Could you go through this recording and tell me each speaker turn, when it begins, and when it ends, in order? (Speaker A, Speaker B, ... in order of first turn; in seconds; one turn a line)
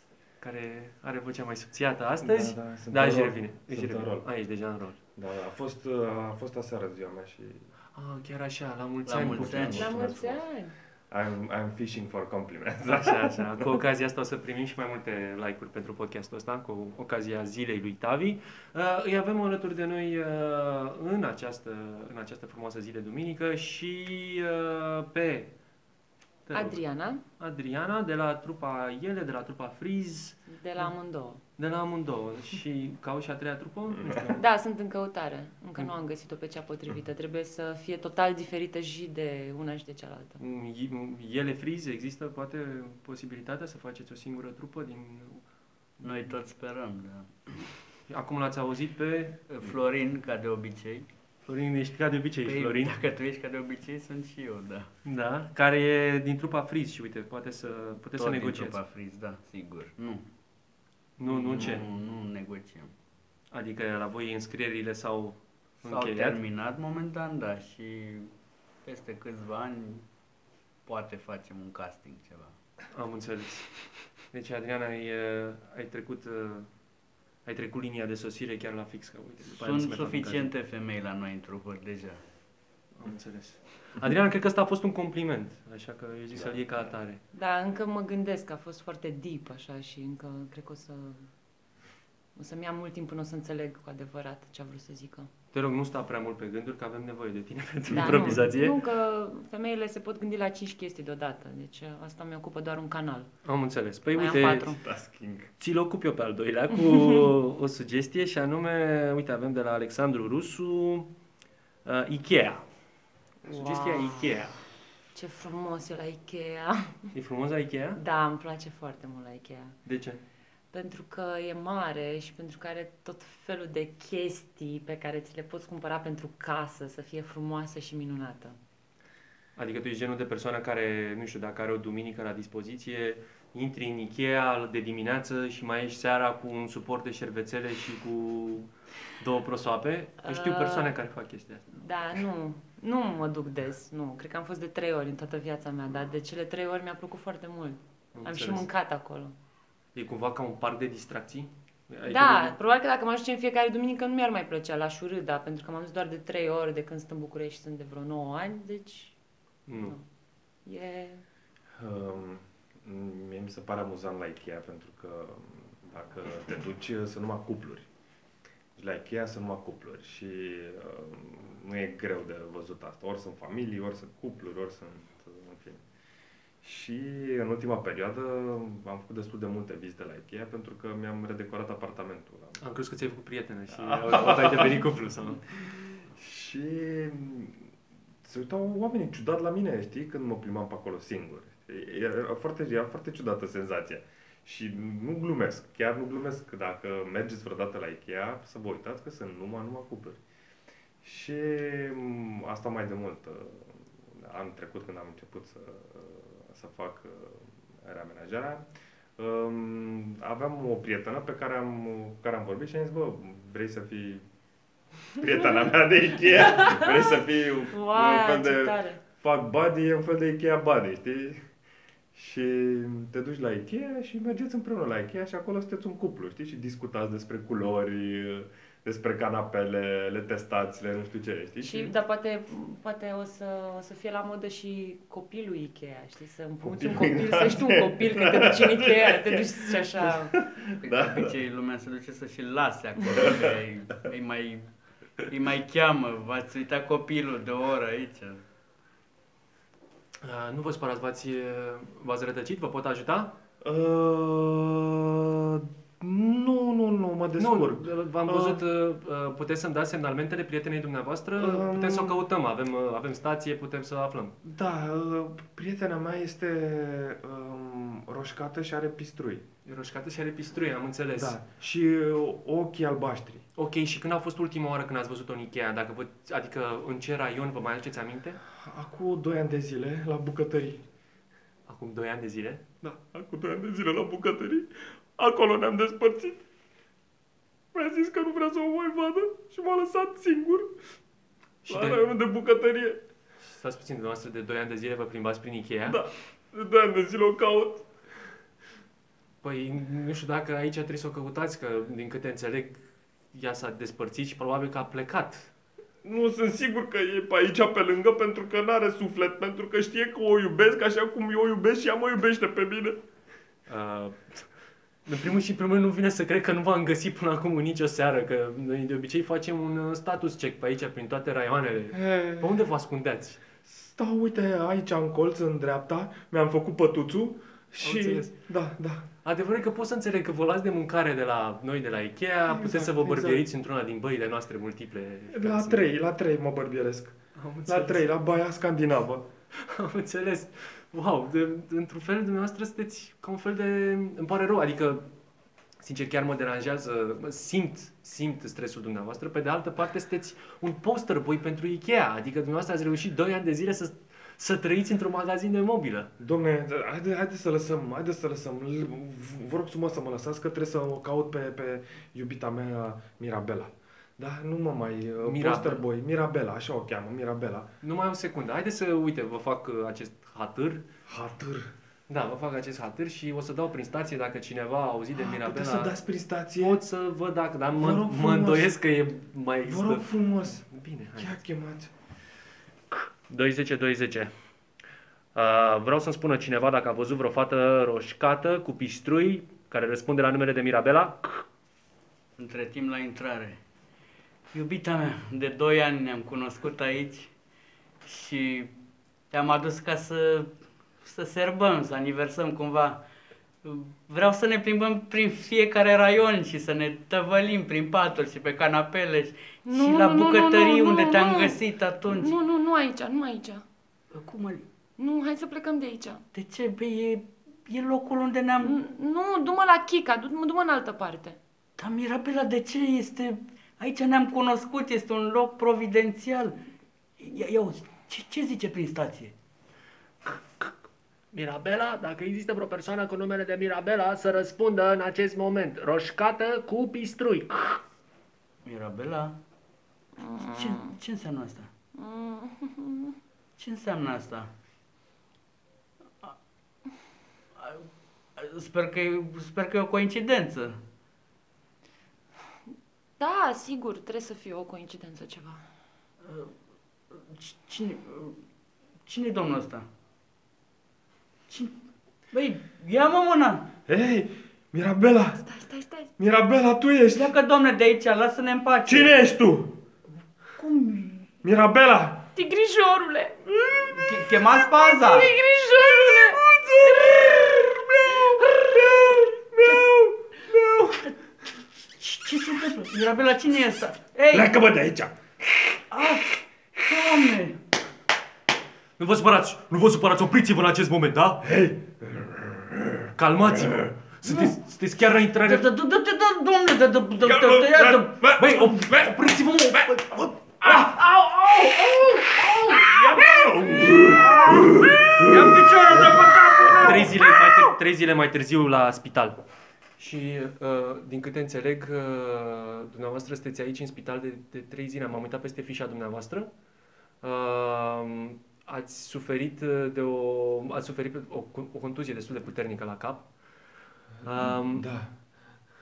Speaker A: 0.4-5.0
Speaker B: 2.2-4.3
Speaker B: 5.2-7.7
Speaker A: 7.9-9.9
Speaker C: 9.1-9.9
Speaker B: 9.2-10.4
Speaker D: 9.7-10.7
Speaker B: 11.1-13.7
Speaker A: 12.9-25.5
Speaker A: 26.4-26.8
Speaker D: 26.5-27.2
Speaker A: 27.4-30.9
Speaker D: 30.5-31.4
Speaker A: 31.6-34.4
Speaker B: 33.9-34.4
Speaker D: 34.3-40.4
Speaker A: 40.4-45.4
Speaker C: 46.0-47.7
Speaker A: 48.1-49.7
Speaker C: 49.5-51.0
Speaker A: 51.5-53.0
Speaker C: 52.4-54.9
Speaker A: 55.0-58.8
Speaker C: 58.2-60.2
Speaker A: 61.2-61.9
Speaker C: 61.2-62.9
Speaker A: 63.5-66.4
Speaker C: 65.8-68.3
Speaker C: 68.8-70.0
Speaker C: 70.8-72.5
Speaker A: 72.9-73.7
Speaker A: 74.3-76.7
Speaker A: 77.5-80.5
Speaker C: 79.5-82.2
Speaker A: 83.0-87.2
Speaker D: 87.3-91.3
Speaker D: 92.3-95.3
Speaker A: 95.5-98.7
Speaker D: 97.9-103.3
Speaker B: 98.0-98.3
Speaker A: 103.4-104.8
Speaker D: 104.1-104.8
Speaker B: 104.7-105.5
Speaker A: 105.6-111.1
Speaker D: 106.8-107.3
Speaker A: 111.8-112.6
Speaker D: 113.5-114.2
Speaker A: 113.5-114.6
Speaker D: 115.1-117.1
Speaker A: 117.1-118.0
Speaker D: 117.9-119.8
Speaker A: 119.8-120.2
Speaker D: 120.7-128.6
Speaker A: 129.6-141.8
Speaker D: 140.2-140.9
Speaker D: 141.8-149.3
Speaker A: 148.1-148.7
Speaker A: 149.9-152.6
Speaker D: 152.1-159.1
Speaker A: 159.7-159.9
Speaker D: 159.7-160.0
Speaker D: 160.6-161.2
Speaker B: 161.8-167.9
Speaker B: 168.8-175.8
Speaker B: 176.6-182.6
Speaker A: 182.6-185.4
Speaker B: 183.7-184.9
Speaker B: 185.6-187.7
Speaker B: 188.2-200.2
Speaker B: 201.0-208.7
Speaker B: 209.2-214.2
Speaker B: 215.1-221.4
Speaker D: 216.2-219.0
Speaker B: 222.1-231.9
Speaker D: 231.6-240.3
Speaker B: 236.6-241.4
Speaker C: 240.8-244.7
Speaker B: 243.1-243.5
Speaker C: 245.2-248.4
Speaker A: 250.2-253.3
Speaker B: 253.6-258.6
Speaker A: 257.4-264.4
Speaker B: 261.4-262.2
Speaker B: 264.4-269.4
Speaker A: 269.6-271.4
Speaker B: 271.1-273.4
Speaker A: 273.6-278.4
Speaker B: 278.5-280.8
Speaker A: 281.7-282.7
Speaker B: 282.8-286.4
Speaker B: 287.7-290.7
Speaker A: 291.6-292.0
Speaker B: 291.7-293.0
Speaker A: 293.4-296.0
Speaker B: 295.8-297.9
Speaker A: 299.4-302.8
Speaker A: 303.3-305.5
Speaker B: 306.0-313.0
Speaker A: 313.7-314.5
Speaker A: 315.1-323.4
Speaker B: 321.9-322.5
Speaker B: 323.6-329.1
Speaker A: 327.8-328.3
Speaker A: 329.2-335.9
Speaker B: 332.5-333.4
Speaker B: 335.3-339.3
Speaker A: 337.4-338.0
Speaker A: 339.5-345.1
Speaker A: 345.8-356.1
Speaker B: 356.2-367.7
Speaker A: 365.2-365.8
Speaker A: 367.8-370.9
Speaker B: 371.1-371.7
Speaker A: 372.1-375.9
Speaker B: 375.1-376.8
Speaker A: 376.6-381.4
Speaker B: 377.7-378.7
Speaker B: 379.6-380.6
Speaker B: 381.2-381.9
Speaker A: 382.9-384.3
Speaker A: 385.3-391.4
Speaker C: 392.4-393.6
Speaker C: 394.5-397.3
Speaker C: 398.0-398.7
Speaker C: 399.3-403.0
Speaker C: 403.6-412.3
Speaker D: 409.6-413.6
Speaker C: 414.1-414.6
Speaker D: 415.0-416.2
Speaker C: 416.3-418.8
Speaker D: 418.6-421.4
Speaker C: 421.8-426.5
Speaker C: 427.2-429.3
Speaker A: 431.3-437.8
Speaker C: 438.6-439.3
Speaker D: 440.2-440.9
Speaker C: 440.5-441.7
Speaker D: 441.9-443.2
Speaker C: 443.6-444.5
Speaker C: 447.6-450.8
Speaker D: 453.2-455.6
Speaker C: 456.2-456.5
Speaker C: 457.1-458.4
Speaker C: 459.1-459.9
Speaker C: 461.5-461.7
Speaker C: 462.3-463.7
Speaker B: 463.9-465.4
Speaker D: 465.4-466.1
Speaker B: 466.2-467.4
Speaker C: 467.1-469.1
Speaker B: 468.9-469.8
Speaker C: 470.6-471.3
Speaker B: 471.4-472.3
Speaker D: 472.3-473.4
Speaker C: 473.5-475.3
Speaker D: 475.0-477.3
Speaker B: 475.8-481.1
Speaker C: 477.0-479.9
Speaker C: 480.5-481.1
Speaker C: 482.0-484.5
Speaker B: 484.3-485.8
Speaker C: 485.9-487.6
Speaker A: 489.0-491.4
Speaker B: 491.4-493.9
Speaker A: 493.1-495.7
Speaker C: 495.3-498.2
Speaker B: 497.2-501.0
Speaker A: 498.4-500.0
Speaker C: 500.6-503.2
Speaker B: 501.9-507.7
Speaker A: 503.2-503.6
Speaker C: 503.9-507.2
Speaker A: 506.8-509.4
Speaker A: 510.0-516.5
Speaker A: 517.2-523.3
Speaker A: 524.2-524.9
Speaker B: 524.2-525.1